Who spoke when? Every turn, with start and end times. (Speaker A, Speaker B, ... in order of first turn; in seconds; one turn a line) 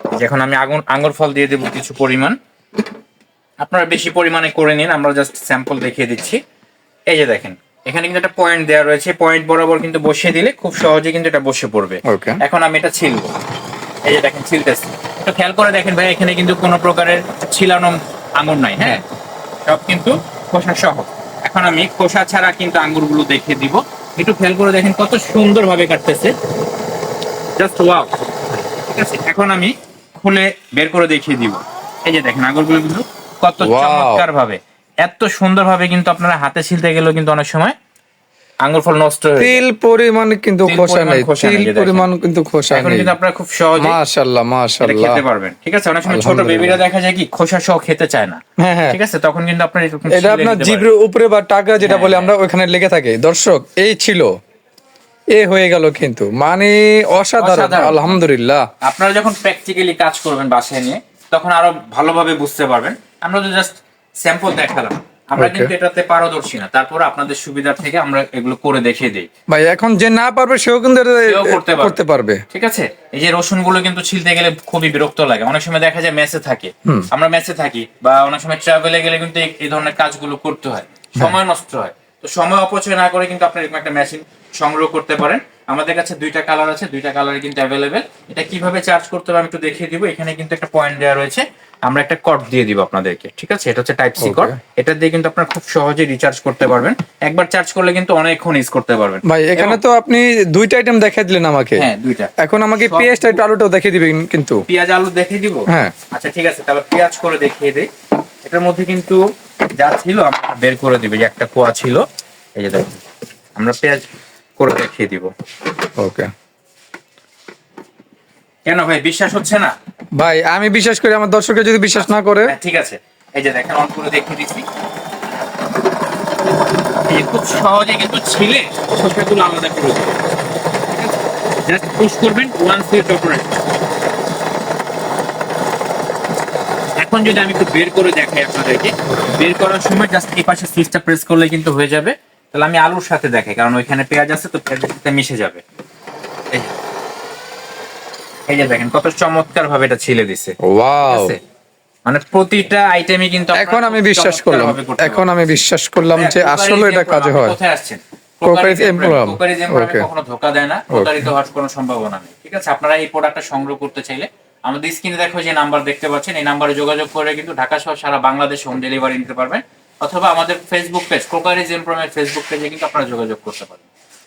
Speaker A: 0.2-2.4
Speaker A: 3.6-6.4
Speaker A: 7.1-13.3
Speaker B: 12.1-12.4
Speaker A: 14.0-19.0
Speaker A: 19.6-26.3
Speaker A: 27.6-37.7
Speaker B: 33.6-34.2
Speaker A: 38.6-39.6
Speaker B: 39.4-43.1
Speaker A: 40.6-42.1
Speaker A: 42.7-44.0
Speaker B: 43.8-45.2
Speaker A: 44.8-50.8
Speaker B: 46.0-46.8
Speaker B: 48.6-49.0
Speaker B: 50.1-54.3
Speaker A: 51.8-52.3
Speaker B: 55.3-58.6
Speaker A: 57.4-58.2
Speaker A: 58.8-69.3
Speaker B: 65.4-65.7
Speaker B: 69.5-72.4
Speaker A: 71.3-72.0
Speaker A: 72.5-99.8
Speaker B: 94.2-94.5
Speaker B: 99.3-101.8
Speaker A: 101.8-103.4
Speaker B: 102.4-104.6
Speaker A: 104.7-107.9
Speaker A: 108.4-109.2
Speaker A: 109.8-112.0
Speaker A: 112.6-113.0
Speaker A: 113.5-114.0
Speaker A: 114.6-115.3
Speaker B: 116.0-116.3
Speaker A: 118.7-119.7
Speaker B: 120.2-122.5
Speaker A: 122.0-124.6
Speaker A: 127.1-130.2
Speaker A: 131.7-133.6
Speaker A: 137.0-145.6
Speaker A: 148.5-151.4
Speaker B: 150.7-151.3
Speaker A: 152.1-155.2
Speaker B: 153.5-157.6
Speaker A: 156.1-173.9
Speaker B: 158.4-160.1
Speaker B: 160.9-161.3